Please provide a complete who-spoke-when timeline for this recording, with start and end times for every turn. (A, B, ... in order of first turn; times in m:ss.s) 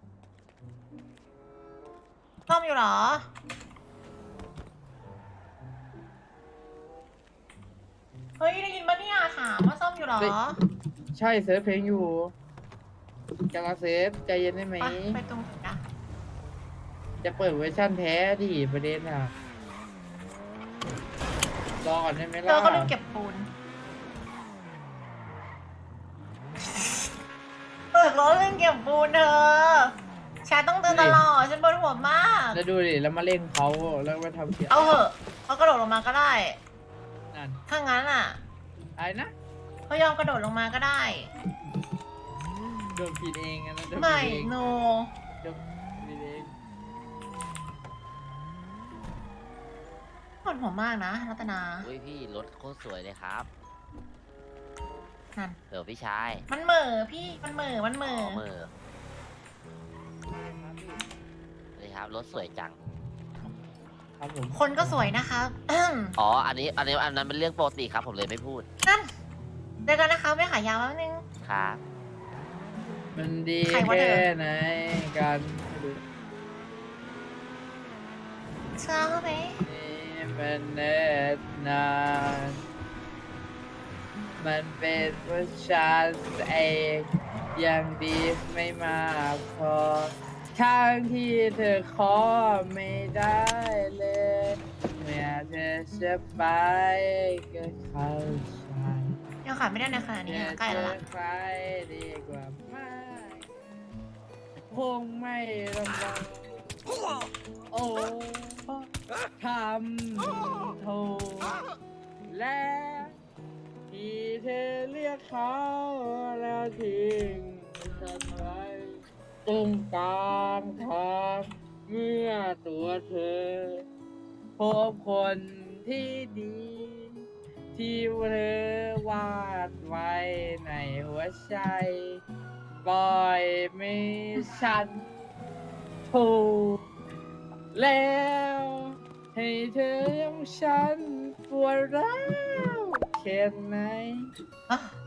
0:02.5-0:03.3 A
0:08.4-0:10.6 A
0:11.1-0:12.3 B
0:13.5-0:15.2 B
0:14.8-0:15.8 A
0:17.2-0:19.3 B
0:21.8-0:22.9 B
0:22.4-0:23.5 A
0:26.6-0:27.1 A
0:27.9-0:29.9 A
0:30.4-0:32.6 A
0:30.9-0:31.2 B
0:32.5-0:35.0 B
0:34.7-0:36.6 A
0:37.3-0:37.6 B
0:37.7-0:38.4 A
0:39.0-0:39.3 B
0:39.9-0:41.3 A
0:42.9-0:44.6 B
0:43.9-0:45.1 A
0:45.4-0:46.5 B
0:50.4-0:51.9 A
0:51.8-0:53.5 C
0:55.7-0:56.4 C
0:56.5-0:58.4 A
0:58.0-0:58.7 C
1:00.3-1:01.0 B
1:01.8-1:02.8 C
1:04.2-1:05.0 B
1:04.5-1:06.2 A
1:06.2-1:08.6 C
1:09.8-1:11.2 A
1:11.4-1:11.8 C
1:13.1-1:16.0 B
1:13.6-1:14.3 A
1:18.8-1:19.6 A
1:19.6-1:22.6 B
1:24.4-1:39.2 B
1:39.4-1:41.0 A
1:40.2-1:43.6 B
1:44.7-1:46.6 B
1:47.7-1:48.7 B
1:49.4-1:51.6 B
1:52.3-1:53.2 B
1:53.9-2:03.8 B
2:04.6-2:12.2 B
2:12.8-2:15.1 B
2:16.1-2:16.8 B
2:17.7-2:24.3 B
2:24.7-2:24.9 A